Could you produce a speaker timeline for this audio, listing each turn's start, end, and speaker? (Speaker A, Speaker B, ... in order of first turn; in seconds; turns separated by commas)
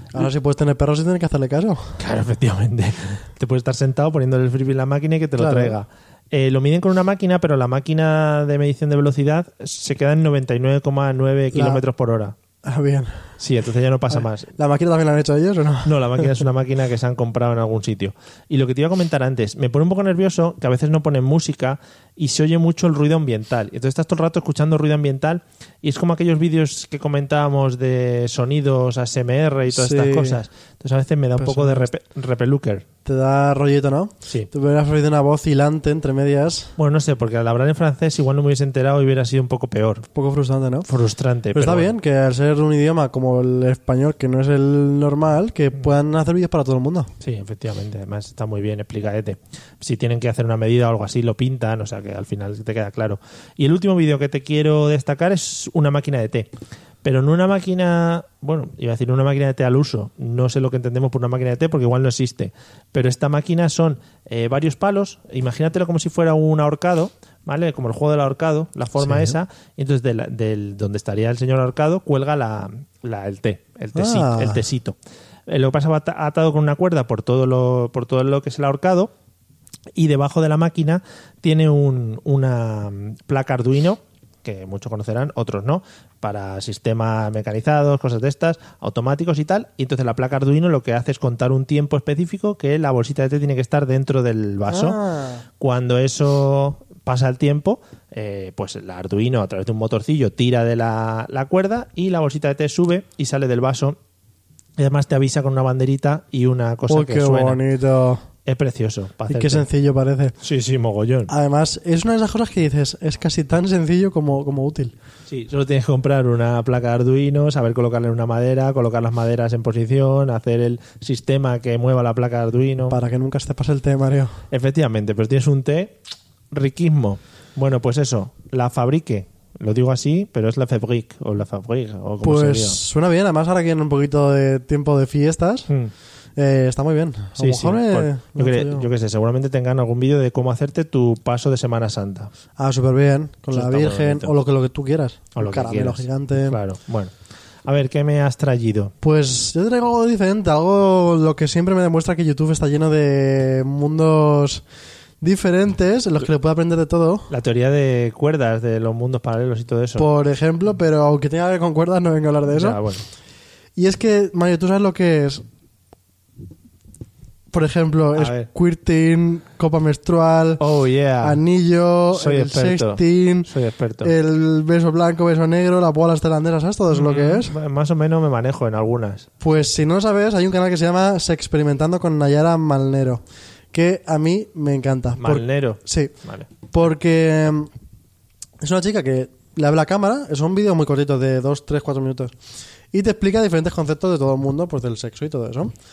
Speaker A: 0.1-1.9, Speaker B: 2.0-12.3, Speaker A: 5.3-5.8, Speaker A: 11.5-11.8, Speaker A: 12.6-13.3, Speaker B: 13.4-14.5, Speaker A: 14.1-16.4, Speaker B: 15.8-32.9, Speaker A: 29.7-30.4, Speaker A: 31.4-31.9, Speaker A: 33.0-36.8, Speaker B: 36.8-40.1, Speaker A: 40.1-40.9, Speaker B: 40.9-41.9, Speaker A: 41.5-47.1, Speaker B: 47.2-56.5, Speaker B: 57.0-75.0, Speaker A: 69.0-69.4, Speaker A: 73.9-74.7, Speaker B: 75.5-79.1, Speaker B: 80.0-95.0, Speaker A: 94.7-95.4, Speaker B: 95.6-104.0, Speaker B: 104.8-107.6, Speaker A: 106.9-108.2, Speaker B: 108.4-109.7, Speaker A: 109.3-110.3, Speaker B: 110.4-111.3, Speaker A: 111.3-114.9, Speaker B: 115.3-123.0, Speaker A: 122.9-124.3, Speaker B: 124.5-126.0, Speaker B: 126.5-132.8, Speaker A: 132.2-135.7, Speaker A: 136.4-138.9, Speaker B: 137.3-142.3, Speaker A: 142.6-146.6, Speaker B: 143.5-144.3, Speaker B: 145.3-147.1, Speaker B: 147.6-148.9, Speaker A: 149.0-154.6, Speaker A: 155.2-157.3, Speaker B: 157.3-160.1, Speaker A: 159.9-162.8, Speaker B: 162.5-163.1, Speaker A: 163.8-165.4, Speaker A: 167.5-170.6, Speaker B: 168.2-168.5, Speaker B: 170.6-171.4, Speaker A: 171.2-173.5, Speaker B: 172.1-174.1, Speaker A: 174.0-177.5, Speaker B: 176.9-179.3, Speaker A: 179.4-186.2, Speaker B: 185.2-186.5, Speaker A: 186.7-187.7, Speaker A: 188.6-192.3, Speaker A: 192.9-195.7